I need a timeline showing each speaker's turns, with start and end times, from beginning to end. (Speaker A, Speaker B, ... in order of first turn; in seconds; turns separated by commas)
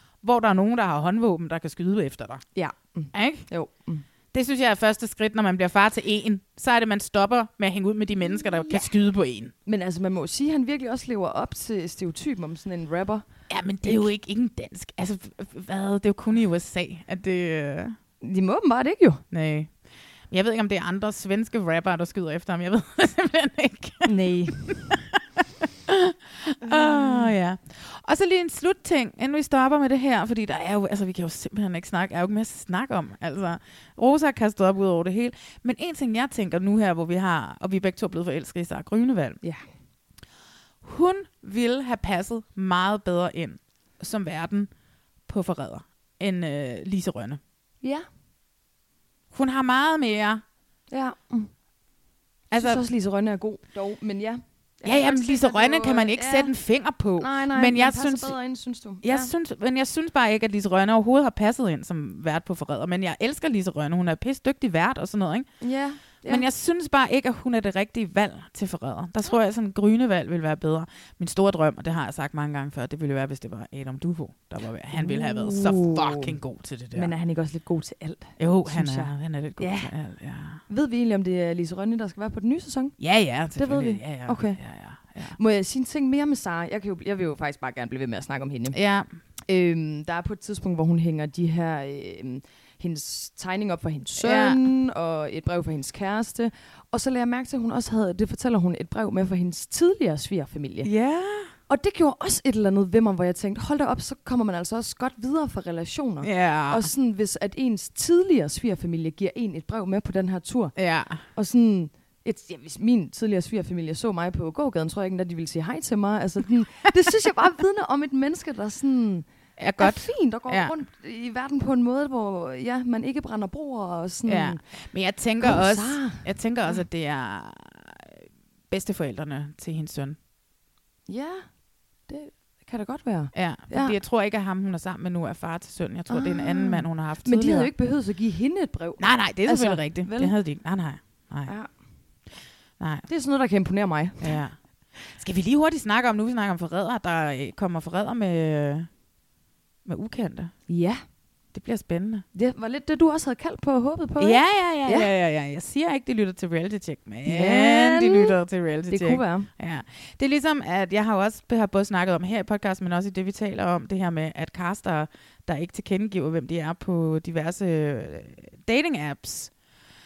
Speaker A: 0.2-2.4, Speaker B: 2.5-4.0, Speaker A: 3.1-3.4, Speaker A: 4.3-9.5, Speaker B: 8.2-8.9, Speaker B: 9.7-13.3, Speaker A: 13.5-17.9, Speaker B: 13.8-14.1, Speaker B: 18.2-19.2, Speaker A: 19.3-19.7, Speaker A: 20.3-24.1, Speaker B: 24.0-24.9, Speaker A: 24.7-25.0, Speaker A: 25.9-39.4, Speaker B: 26.6-27.3, Speaker A: 40.8-44.7, Speaker A: 45.3-47.4, Speaker A: 49.3-50.4, Speaker B: 50.9-51.5, Speaker A: 52.5-52.8, Speaker B: 52.5-56.5, Speaker A: 54.8-58.4, Speaker B: 57.2-59.3, Speaker A: 59.0-65.5, Speaker B: 65.6-66.5, Speaker A: 66.2-77.1, Speaker B: 74.9-76.3, Speaker B: 76.9-79.9, Speaker A: 78.4-80.6, Speaker B: 80.7-82.9, Speaker A: 83.0-85.4, Speaker B: 83.6-84.6, Speaker B: 85.4-88.8, Speaker A: 88.7-89.1, Speaker B: 89.5-100.9, Speaker A: 94.2-94.6, Speaker A: 100.8-101.5, Speaker B: 101.7-110.7, Speaker A: 106.2-106.9, Speaker A: 110.8-111.2, Speaker B: 111.3-119.3, Speaker A: 119.6-120.7, Speaker B: 119.8-124.6, Speaker A: 124.2-128.1, Speaker B: 125.4-126.8, Speaker A: 128.7-130.2, Speaker B: 131.1-131.5, Speaker B: 132.1-133.9, Speaker A: 133.3-137.7, Speaker B: 136.1-140.3, Speaker A: 139.0-141.5, Speaker A: 142.8-143.1, Speaker B: 143.1-144.4, Speaker A: 144.2-148.9, Speaker A: 149.8-150.5, Speaker B: 150.7-151.0, Speaker A: 151.5-152.2, Speaker B: 152.3-155.1, Speaker A: 154.2-169.5, Speaker B: 157.2-158.3, Speaker B: 158.9-159.5